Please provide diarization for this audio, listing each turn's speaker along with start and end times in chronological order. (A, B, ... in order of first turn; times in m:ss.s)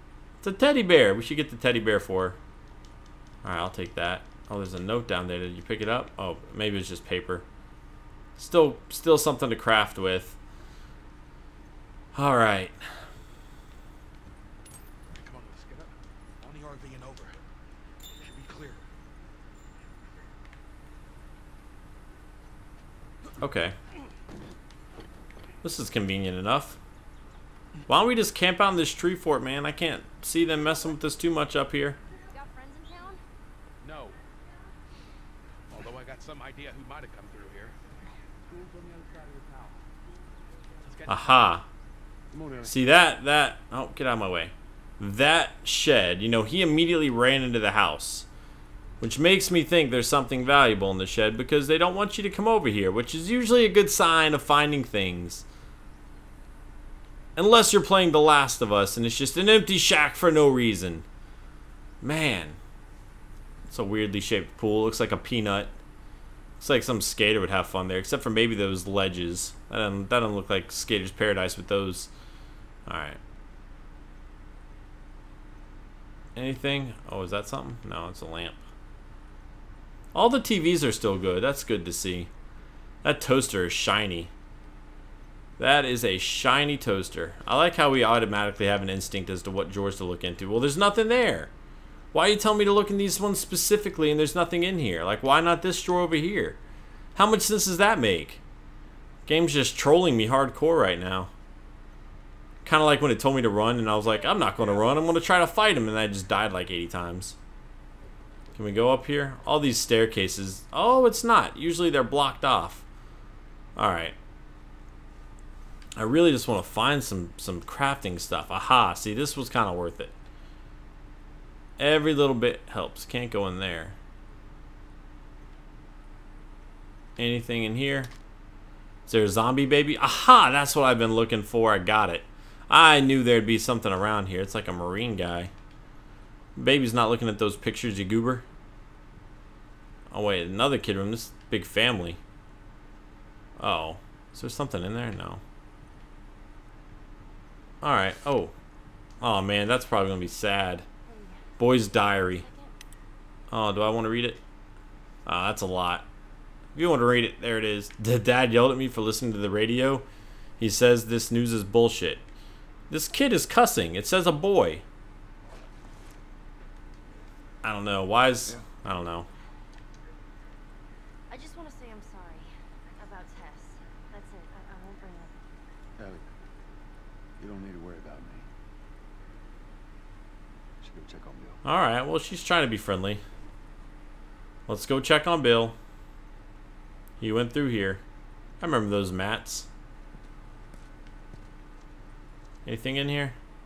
0:00.4-0:02.4 A
0:03.4-0:07.4 A
0:08.4-0:10.4 A
0:12.1-0:12.8 A
0:15.1-0:17.4 B
0:18.2-0:18.8 B
0:23.4-0:23.7 A
0:25.6-0:26.8 A
0:27.9-0:32.0 A
0:32.2-0:33.2 C
0:33.8-0:34.2 B
0:35.7-0:37.8 B
0:38.4-0:39.8 B
0:40.8-0:41.5 B
0:41.1-0:41.6 A
0:42.3-0:42.8 D
0:42.6-0:48.3 A
0:49.0-0:55.4 A
0:57.4-1:01.0 A
1:02.0-1:02.6 A
1:03.7-1:05.7 A
1:06.6-1:12.1 A
1:12.8-1:13.2 A
1:16.3-1:18.6 A
1:20.1-1:22.3 A
1:23.0-1:24.3 A
1:25.6-1:31.5 A
1:32.1-1:36.6 A
1:37.1-1:38.4 A
1:39.3-1:41.3 A
1:42.6-1:47.4 A
1:48.5-1:52.8 A
1:53.8-1:54.1 A
1:56.0-2:00.1 A
2:01.8-2:04.0 A
2:07.2-2:08.1 A
2:09.1-2:15.5 A
2:16.6-2:18.4 A
2:20.1-2:22.2 A
2:23.6-2:25.4 A
2:27.8-2:28.5 A
2:29.2-2:30.8 A
2:31.0-2:31.4 C
2:31.6-2:32.4 A
2:32.1-2:32.7 C
2:33.5-2:34.4 A
2:35.2-2:36.1 A
2:36.7-2:40.0 A
2:40.6-2:42.2 A
2:42.9-2:44.8 A
2:47.6-2:49.3 A
2:51.3-2:55.3 C
2:56.0-2:56.3 D
2:57.4-2:58.5 D
3:00.8-3:01.6 D
3:01.6-3:03.2 A
3:04.7-3:05.8 A
3:07.2-3:08.0 A
3:08.6-3:09.7 A
3:12.6-3:13.4 A